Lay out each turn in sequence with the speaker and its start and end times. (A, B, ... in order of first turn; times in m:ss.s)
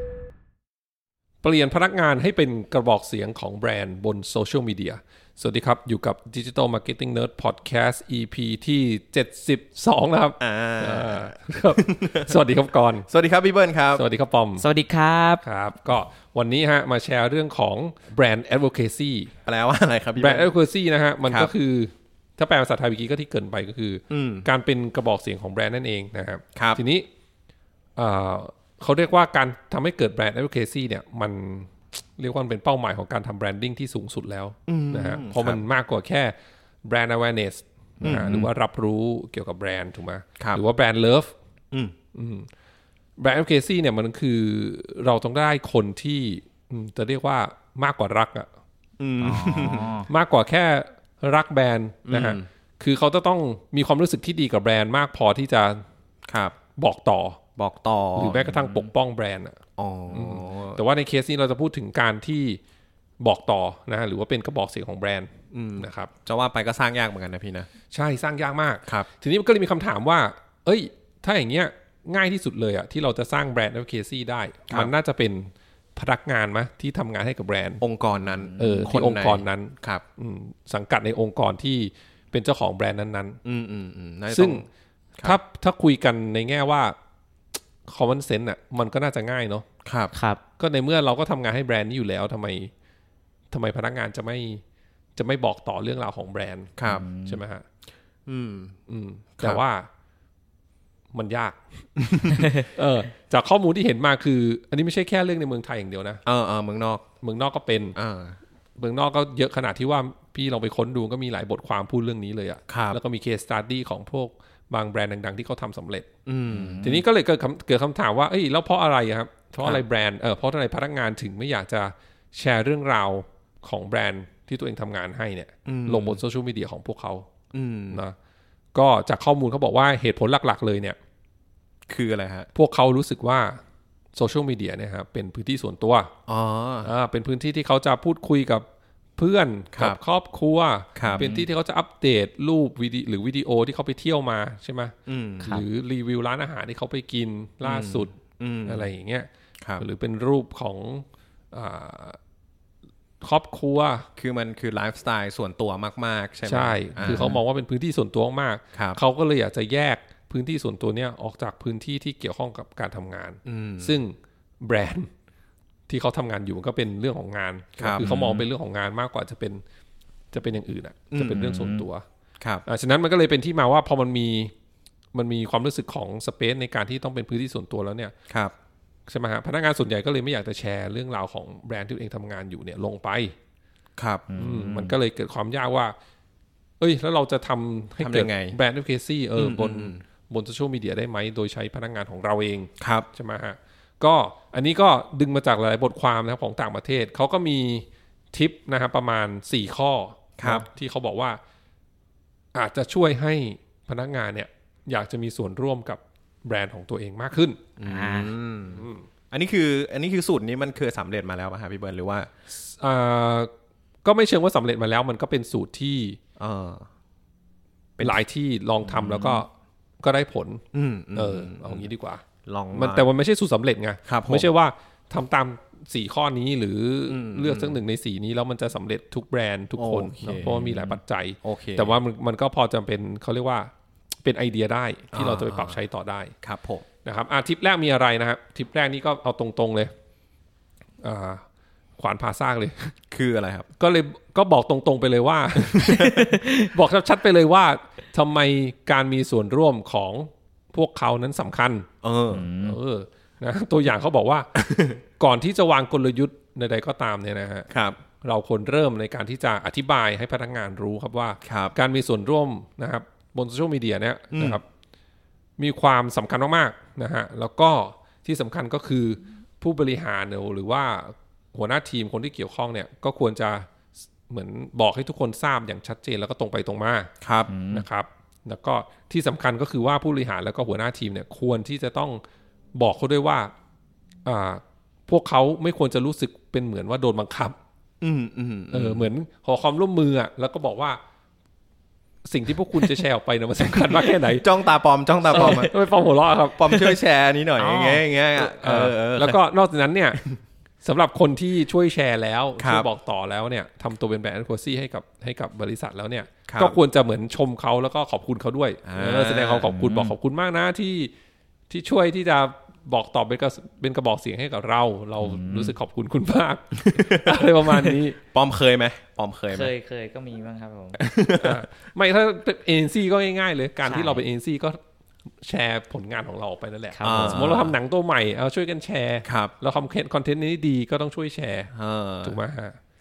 0:01.4-0:13.1 A
0:10.4-0:12.4 B
0:13.1-0:14.0 B
0:13.9-0:14.6 A
0:14.6-0:15.4 C
0:15.4-0:19.3 A
0:19.4-0:20.5 B
0:20.2-0:27.1 A
0:21.2-0:21.5 B
0:24.1-0:24.5 B
0:26.6-0:26.8 B
0:28.0-0:41.3 A
0:34.7-0:35.6 B
0:38.0-0:38.5 B
0:42.1-0:42.5 A
0:43.2-0:48.5 A
0:49.0-0:49.9 B
0:49.2-0:50.1 C
0:50.1-0:55.8 A
0:52.1-0:52.4 B
0:56.3-0:56.5 B
0:56.8-0:57.4 A
0:57.6-0:58.4 B
0:58.2-0:59.6 A
0:58.3-0:58.9 C
0:59.8-1:00.8 B
1:00.1-1:02.6 A
1:03.2-1:06.1 A
1:05.5-1:07.7 B
1:07.9-1:17.8 A
1:17.8-1:20.0 B
1:18.4-1:18.9 C
1:18.6-1:23.4 A
1:23.4-1:24.6 B
1:24.3-1:24.6 A
1:25.2-1:26.9 A
1:27.8-1:29.6 A
1:29.8-1:30.1 B
1:30.1-1:30.4 C
1:30.6-1:32.7 A
1:33.5-1:34.6 A
1:35.2-1:37.6 A
1:36.8-1:37.0 B
1:36.8-1:37.4 C
1:38.2-1:38.8 B
1:38.9-1:39.9 A
1:41.1-1:41.6 A
1:42.2-1:46.2 A
1:46.2-1:47.0 B
1:47.2-1:48.0 A
1:48.0-1:48.4 B
1:48.8-1:56.1 A
1:52.7-1:53.0 B
1:56.2-1:57.0 B
1:56.5-1:56.9 C
1:56.8-2:07.3 A
2:05.6-2:06.2 B
2:07.5-2:08.0 B
2:08.7-2:11.0 A
2:11.9-2:12.5 B
2:12.5-2:13.6 A
2:14.1-2:16.1 A
2:16.3-2:16.9 B
2:16.8-2:18.6 A
2:19.2-2:32.2 A
2:19.7-2:20.0 B
2:21.0-2:21.3 B
2:21.0-2:21.4 C
2:25.1-2:25.6 B
2:27.6-2:28.9 B
2:33.2-2:34.1 A
2:34.2-2:37.4 B
2:36.4-2:45.1 A
2:38.7-2:39.0 B
2:43.4-2:44.0 B
2:45.9-2:49.6 A
2:47.8-2:48.1 B
2:48.0-2:48.5 C
2:50.3-2:52.0 A
2:51.1-2:51.6 B
2:51.3-2:51.8 C
2:52.6-2:54.5 A
2:55.1-2:58.1 A
2:59.1-3:03.3 A
3:04.0-3:04.3 B
3:04.3-3:05.0 C
3:04.3-3:06.0 A
3:06.8-3:21.4 A
3:08.0-3:08.6 B
3:09.4-3:10.0 B
3:12.8-3:13.1 B
3:20.4-3:20.6 B
3:22.5-3:27.6 A
3:27.8-3:32.3 B
3:27.8-3:28.3 C
3:28.7-3:29.0 A
3:32.5-3:33.5 A
3:34.0-3:36.2 A
3:36.4-3:36.8 B
3:38.0-3:39.5 A
3:39.0-3:39.4 B
3:40.0-3:42.2 A
3:40.7-3:41.9 B
3:42.4-3:43.1 B
3:42.7-3:53.7 A
3:44.0-3:44.5 B
3:47.1-3:47.8 B
3:49.8-3:52.0 B
3:54.2-3:56.3 A
3:55.1-3:55.8 B
3:56.4-3:56.8 B
3:57.0-3:59.9 A
4:01.0-4:01.4 A
4:02.0-4:02.9 A
4:03.1-4:03.7 B
4:03.8-4:11.9 A
4:05.6-4:06.1 B
4:12.0-4:12.5 B
4:12.3-4:12.8 C
4:12.6-4:14.5 A
4:14.6-4:15.0 B
4:15.2-4:24.6 A
4:17.7-4:18.0 B
4:21.4-4:21.7 B
4:24.3-4:24.6 B
4:25.6-4:33.7 A
4:34.3-4:37.1 A
4:37.2-4:37.5 B
4:37.5-4:37.8 C
4:37.7-4:42.2 A
4:42.7-4:43.5 A
4:44.2-4:47.6 A
4:48.0-4:49.1 B
4:48.7-4:51.0 A
4:52.2-4:54.4 A
4:53.9-4:55.8 B
4:55.3-4:56.9 A
4:56.4-4:59.4 B
4:57.6-4:58.0 C
4:58.3-5:00.2 A
5:00.8-5:11.1 A
5:02.6-5:02.9 B
5:06.5-5:06.8 B
5:08.8-5:09.7 B
5:09.7-5:10.1 C
5:11.7-5:18.2 A
5:15.2-5:15.7 C
5:16.7-5:19.7 B
5:19.5-5:21.0 C
5:20.9-5:21.6 B
5:21.4-5:24.8 A
5:23.8-5:24.2 C
5:25.4-5:31.7 A
5:26.9-5:27.7 C
5:27.0-5:27.7 B
5:29.2-5:29.5 B
5:31.7-5:32.4 B
5:32.2-5:32.8 A